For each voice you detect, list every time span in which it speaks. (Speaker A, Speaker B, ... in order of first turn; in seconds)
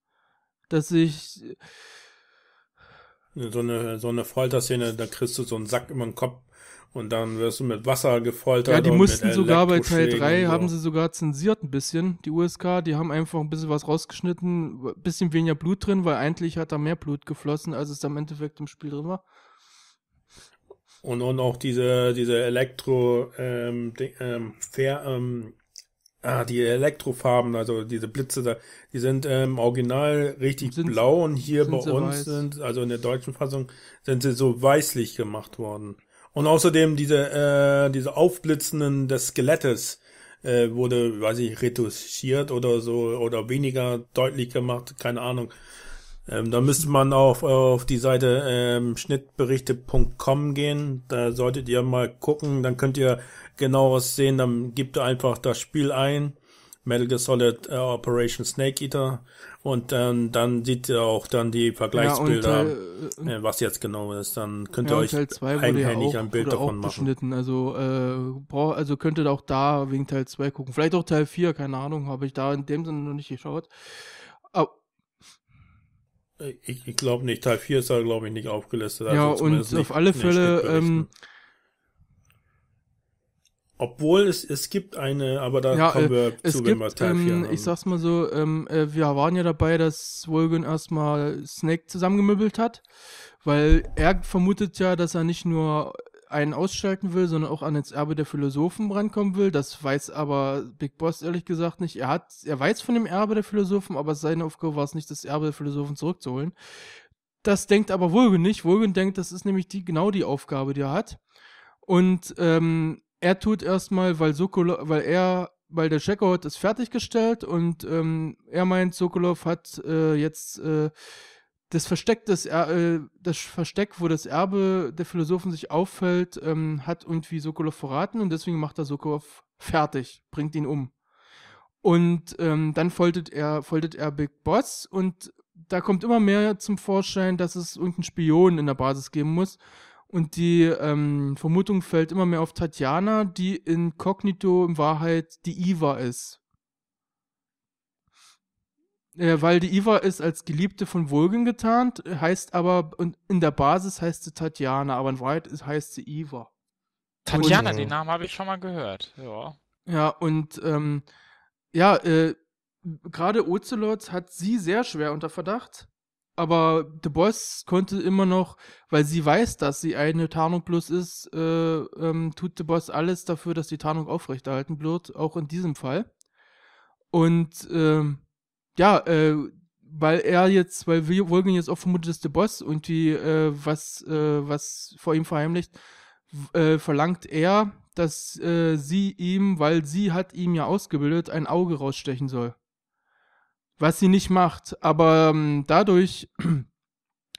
Speaker A: 0.7-1.6, 8.7-19.2, 30.6-32.5, 61.9-63.3, 64.8-74.7, 79.1-81.1, 85.7-92.8, 93.4-106.5, 107.4-111.2, 111.8-120.9, 121.7-130.9, 131.8-146.4, 149.1-156.5, 157.3-157.7, 159.9-161.0, 161.7-176.1, 177.1-178.2, 178.7-185.8, 186.3-192.5, 193.8-196.7
Speaker B: 3.3-10.7, 21.0-25.6, 26.2-45.5, 46.2-67.1, 76.4-81.1, 83.8-87.7, 157.3-157.9
Speaker C: 157.3-159.6